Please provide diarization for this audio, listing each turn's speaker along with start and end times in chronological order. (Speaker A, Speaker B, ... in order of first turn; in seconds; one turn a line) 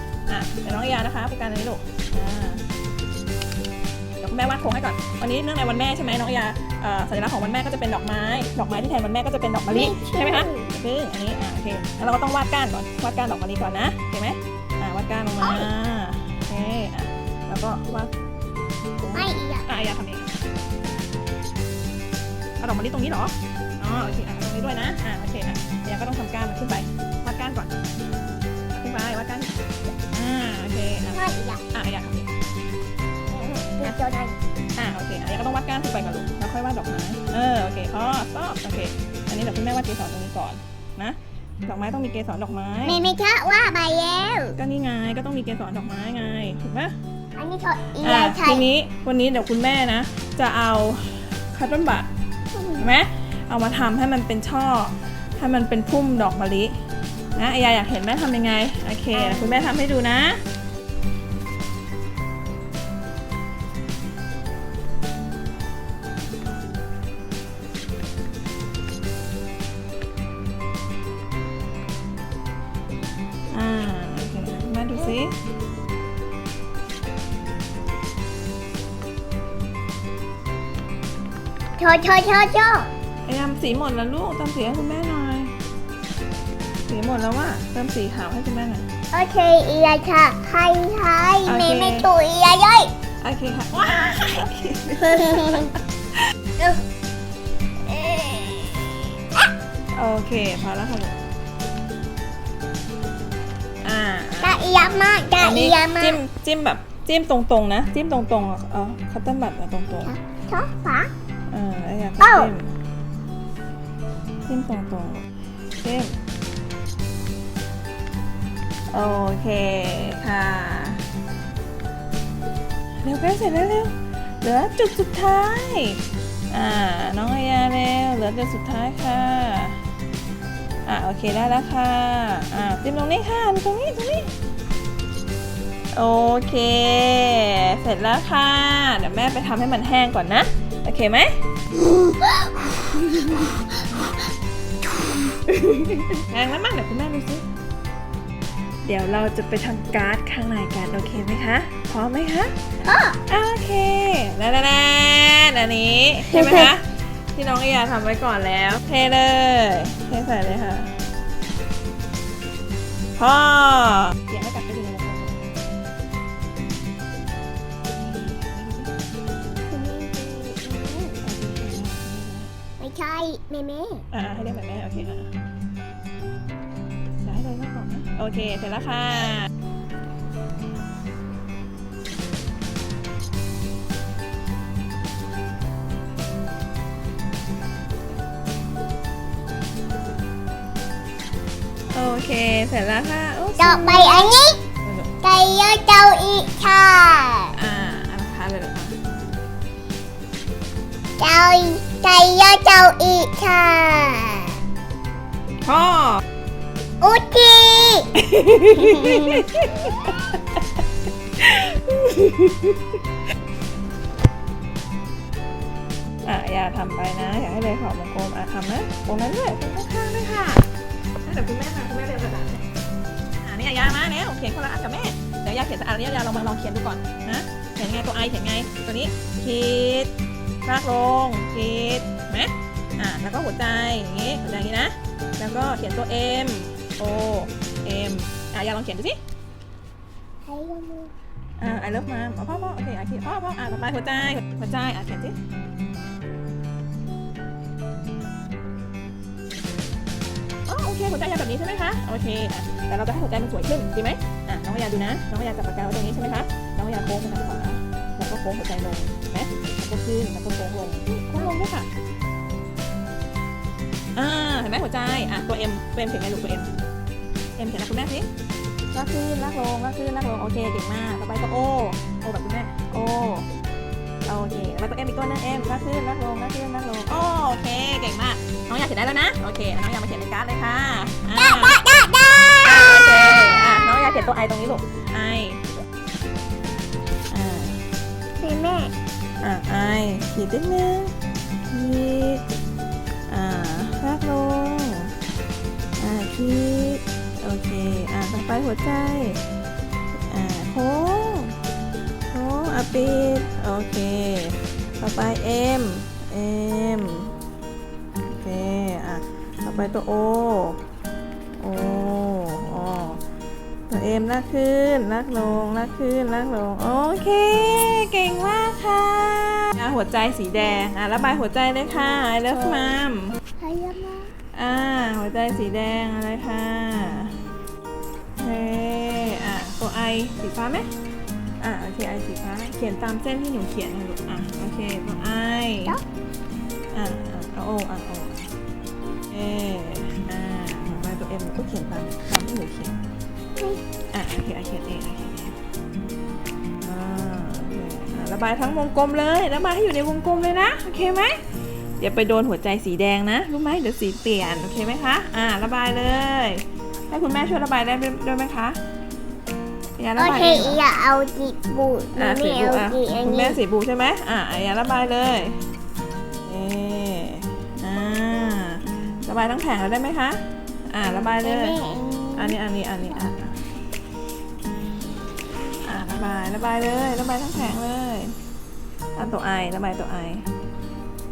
Speaker A: 0.3-2.6
Speaker A: 4.2-18.1
Speaker B: 9.7-10.7
Speaker B: 15.4-15.7
Speaker A: 19.0-20.4
Speaker B: 19.1-19.7
Speaker A: 22.6-27.7
Speaker A: 28.8-29.6
Speaker A: 30.1-32.3
Speaker B: 31.1-31.6
Speaker B: 33.3-34.4
Speaker A: 34.7-43.0
Speaker B: 42.8-44.6
Speaker A: 44.6-46.9
Speaker B: 47.4-48.7
Speaker A: 48.0-52.1
Speaker B: 52.5-52.8
Speaker A: 52.8-56.8
Speaker A: 57.4-60.4
Speaker B: 59.1-59.8
Speaker A: 73.5-75.3
Speaker B: 81.8-82.9
Speaker A: 83.2-85.5
Speaker A: 86.9-88.8
Speaker B: 89.1-92.9
Speaker A: 91.5-92.1
Speaker A: 93.2-95.7
Speaker B: 95.0-95.8
Speaker B: 97.9-99.5
Speaker A: 99.9-101.2
Speaker A: 103.8-110.1
Speaker B: 104.4-106.2
Speaker B: 110.0-111.1
Speaker A: 111.5-112.7
Speaker B: 112.2-112.5
Speaker A: 114.5-115.2
Speaker A: 115.8-116.2
Speaker A: 118.9-121.0
Speaker A: 123.0-129.8
Speaker A: 130.8-134.3
Speaker A: 135.9-141.4
Speaker A: 142.9-143.5
Speaker A: 145.5-147.4
Speaker A: 148.8-152.8
Speaker B: 152.8-153.2
Speaker A: 153.3-160.9
Speaker B: 156.3-156.7
Speaker A: 163.2-165.3
Speaker A: 168.0-168.9
Speaker B: 169.7-171.2
Speaker A: 171.2-172.5
Speaker B: 172.8-174.1
Speaker A: 174.1-175.3
Speaker A: 177.2-179.5
Speaker A: 191.9-194.3
Speaker B: 193.6-194.6
Speaker B: 195.2-197.6
Speaker A: 197.6-198.9
Speaker B: 201.2-204.5
Speaker A: 205.6-206.2
Speaker B: 207.0-208.1
Speaker A: 208.2-210.4
Speaker B: 208.7-209.4
Speaker A: 211.4-213.0
Speaker A: 216.2-220.7
Speaker A: 221.2-222.6
Speaker A: 223.4-230.1
Speaker A: 230.6-239.2
Speaker B: 240.4-241.1
Speaker A: 241.6-245.3
Speaker A: 250.7-261.9
Speaker B: 261.1-261.5
Speaker A: 264.1-266.7
Speaker A: 267.6-268.3
Speaker A: 268.9-273.5
Speaker A: 274.2-281.8
Speaker B: 281.4-283.4
Speaker A: 282.6-285.6
Speaker A: 287.3-287.8
Speaker B: 288.4-288.9
Speaker A: 289.4-291.1
Speaker A: 291.7-292.4
Speaker A: 293.3-295.1
Speaker A: 296.0-299.4
Speaker A: 300.3-301.6
Speaker A: 302.3-307.3
Speaker A: 308.3-310.8
Speaker A: 311.6-313.2
Speaker A: 313.9-323.4
Speaker B: 322.4-323.0
Speaker B: 323.6-324.3
Speaker A: 324.5-327.3
Speaker A: 328.4-330.9
Speaker A: 331.6-336.0
Speaker A: 336.9-338.5
Speaker A: 339.3-343.0
Speaker A: 344.1-345.6
Speaker A: 346.8-351.4
Speaker A: 352.0-358.8
Speaker A: 360.0-360.8
Speaker B: 360.2-363.6
Speaker A: 362.1-365.6
Speaker A: 366.4-371.8
Speaker B: 371.4-372.6
Speaker A: 372.4-373.6
Speaker A: 375.8-378.4
Speaker A: 379.1-380.4